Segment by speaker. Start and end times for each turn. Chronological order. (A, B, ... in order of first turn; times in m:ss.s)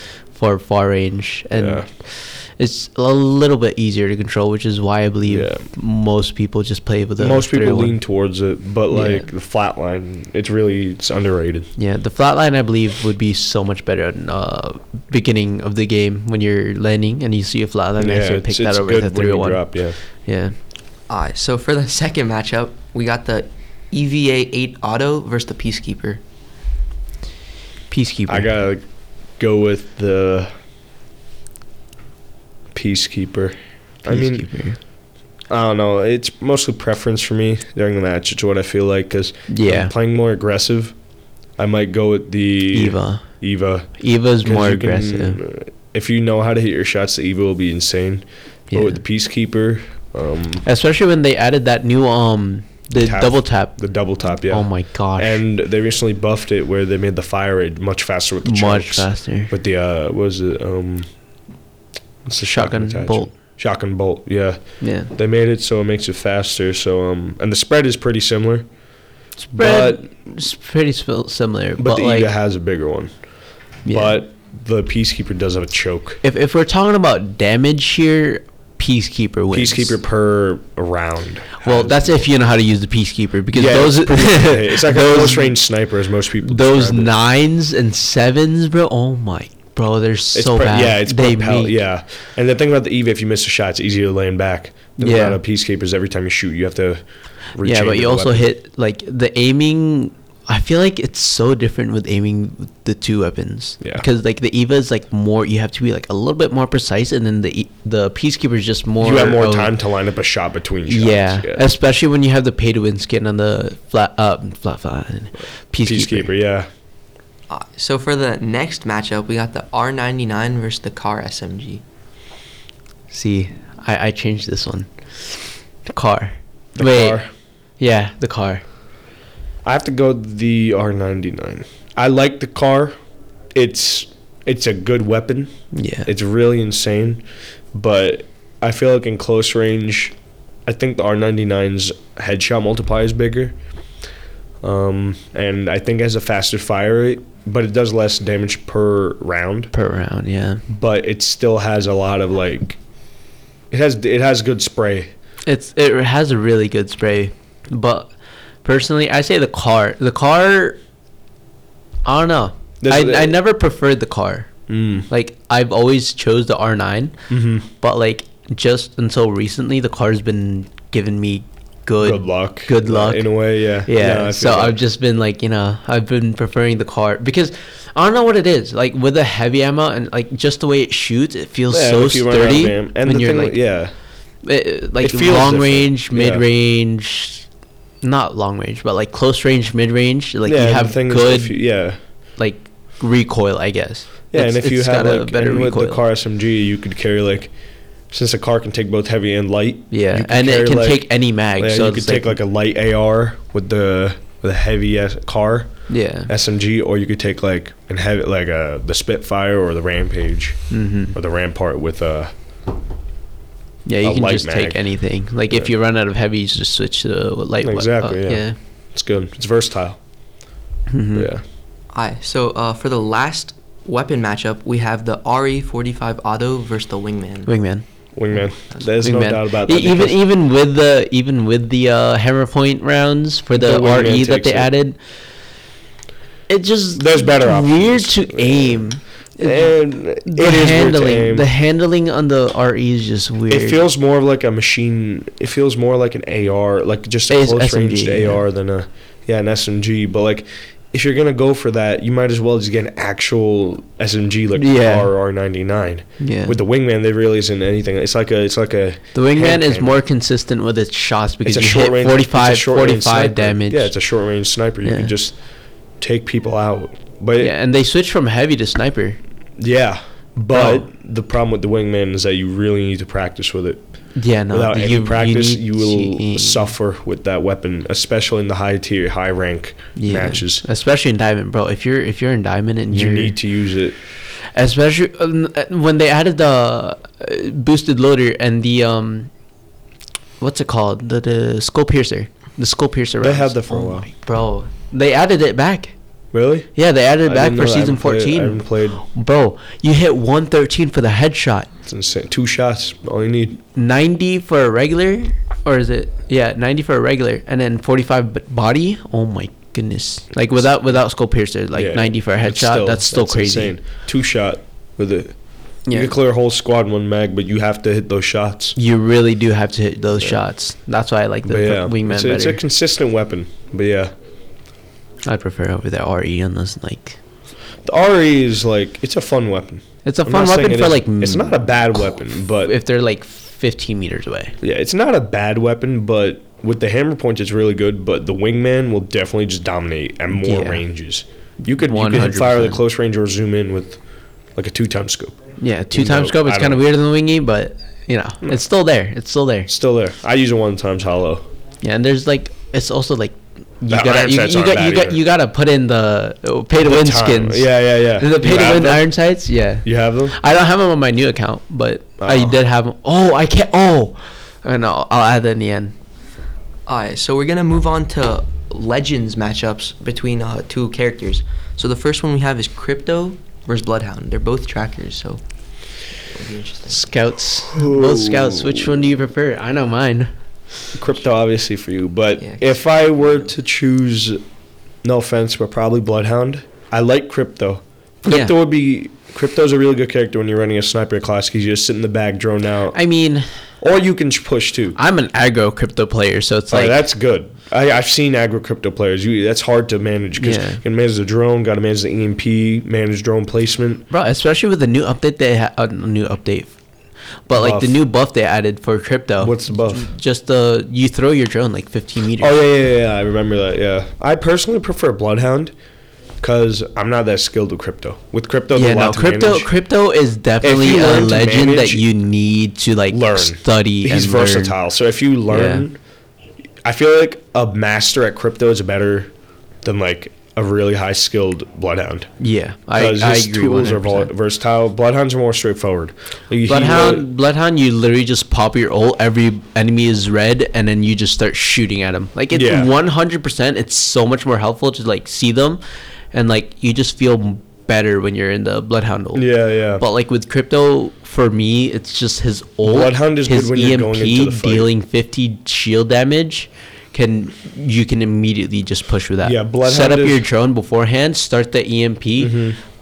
0:00.3-0:08.0 A
0:01.5-0:01.9 B
0:05.3-0:05.6 B
0:07.2-0:11.7 B
0:08.9-0:09.2 A
0:11.8-0:19.7 A
0:18.0-0:20.0 B
0:20.2-0:20.6 A
0:21.1-0:26.2 C
0:27.9-0:28.5 A
0:28.3-0:28.8 B
0:29.4-0:30.5 B
0:32.7-0:34.5 B
0:34.0-0:34.8 A
0:35.5-0:40.9 B
0:39.5-0:39.9 A
0:41.6-0:50.6 B
0:42.7-0:43.2 A
0:44.0-0:45.4 A
0:48.7-0:49.0 A
0:50.6-0:53.8 A
0:52.9-1:01.1 B
0:54.5-0:55.4 A
0:58.4-0:59.5 A
1:02.2-1:04.6 B
1:02.4-1:03.3 A
1:04.8-1:05.1 A
1:05.1-1:08.7 B
1:09.4-1:12.3 A
1:09.6-1:10.0 B
1:11.8-1:13.1 B
1:13.8-1:14.2 A
1:13.9-1:16.2 B
1:16.2-1:19.9 A
1:19.5-1:22.2 B
1:21.6-1:25.6 A
1:23.5-1:27.1 B
1:26.4-1:31.8 A
1:30.3-1:37.0 B
1:35.0-1:35.4 A
1:37.6-1:38.5 B
1:37.6-1:49.7 A
1:49.0-1:51.6 B
1:50.8-1:56.3 A
1:55.8-1:56.7 B
1:57.5-2:01.8 C
2:03.1-2:07.2 A
2:06.8-2:07.3 B
2:07.8-2:08.6 A
2:09.6-2:12.9 B
2:13.5-2:15.5 B
2:15.7-2:16.1 A
2:16.1-2:20.1 B
2:20.6-2:23.6 B
2:24.6-2:29.7 B
2:29.7-2:30.6 A
2:30.7-2:32.8 B
2:33.7-2:35.1 B
2:35.4-2:38.1 A
2:38.6-2:40.8 A
2:42.0-2:44.5 A
2:42.8-2:43.4 B
2:44.7-2:45.1 B
2:45.1-2:47.2 A
2:47.3-2:47.7 B
2:47.7-2:53.3 A
2:52.0-2:54.8 B
2:53.8-3:03.6 A
3:01.7-3:03.9 B
3:04.4-3:07.5 A
3:05.0-3:06.4 B
3:08.0-3:11.6 A
3:10.4-3:12.0 B
3:12.4-3:16.0 A
3:14.3-3:17.5 B
3:18.1-3:32.3 B
3:19.9-3:22.4 A
3:25.9-3:26.3 A
3:30.7-3:31.1 A
3:33.8-3:38.6 A
3:34.0-3:34.9 B
3:37.6-3:40.0 B
3:40.9-3:41.3 A
3:41.1-3:41.4 B
3:41.9-3:47.5 C
3:47.4-3:47.8 A
3:48.2-3:50.2 B
3:49.0-3:55.0 A
3:53.6-3:54.7 B
3:56.5-4:03.8 A
3:57.0-3:58.9 B
3:59.4-4:01.5 B
4:03.5-4:20.0 B
4:07.3-4:08.4 A
4:14.6-4:15.1 A
4:16.2-4:16.6 A
4:19.2-4:23.9 A
4:21.4-4:25.4 B
4:24.8-4:25.1 A
4:26.0-4:27.5 B
4:27.4-4:29.2 A
4:29.6-4:33.8 B
4:30.5-4:30.8 A
4:34.2-4:36.7 A
4:34.5-4:40.6 B
4:40.0-4:43.4 A
4:42.9-4:44.0 B
4:44.5-4:49.3 A
4:50.4-4:55.9 A
4:53.2-4:54.1 B
4:56.3-4:56.7 B
4:56.8-5:01.7 A
4:57.2-4:59.0 B
5:01.8-5:03.6 B
5:03.7-5:13.8 A
5:11.7-5:15.4 B
5:15.9-5:16.1 A
5:15.9-5:18.7 B
5:18.8-5:22.6 A
5:21.4-5:24.1 B
5:25.2-5:27.2 A
5:27.8-5:32.8 B
5:30.0-5:31.6 A
5:32.6-5:34.6 A
5:34.6-5:44.0 B
5:40.4-5:40.8 A
5:41.8-5:42.8 A
5:44.6-5:46.8 B
5:45.6-5:49.7 A
5:49.7-5:51.4 B
5:51.8-6:05.9 A
5:53.9-5:55.2 B
5:56.8-5:59.1 B
5:59.8-6:00.4 B
6:02.2-6:02.6 B
6:06.9-6:15.4 C
6:16.2-6:17.0 C
6:16.9-6:20.3 A
6:17.6-6:19.0 B
6:20.9-6:24.4 B
6:22.4-6:22.7 C
6:25.0-6:33.0 B
6:28.2-6:28.5 A
6:32.9-6:33.5 A
6:33.8-6:35.0 B
6:35.0-6:37.0 A
6:36.7-6:44.1 B
6:40.4-6:40.8 A
6:44.1-6:46.8 A
6:47.5-6:52.6 A
6:47.5-6:48.0 B
6:49.4-6:50.1 B
6:52.4-6:55.7 B
6:56.4-6:59.7 B
6:58.7-7:04.8 A
7:00.6-7:02.0 B
7:03.1-7:06.0 B
7:05.5-7:05.8 A
7:06.8-7:09.3 B
7:09.8-7:12.3 B
7:12.4-7:14.3 A
7:13.0-7:17.2 B
7:16.6-7:25.8 A
7:22.5-7:22.9 B
7:26.3-7:42.7 A
7:29.3-7:30.0 B
7:32.8-7:34.9 B
7:39.4-7:40.4 B
7:42.4-7:42.8 B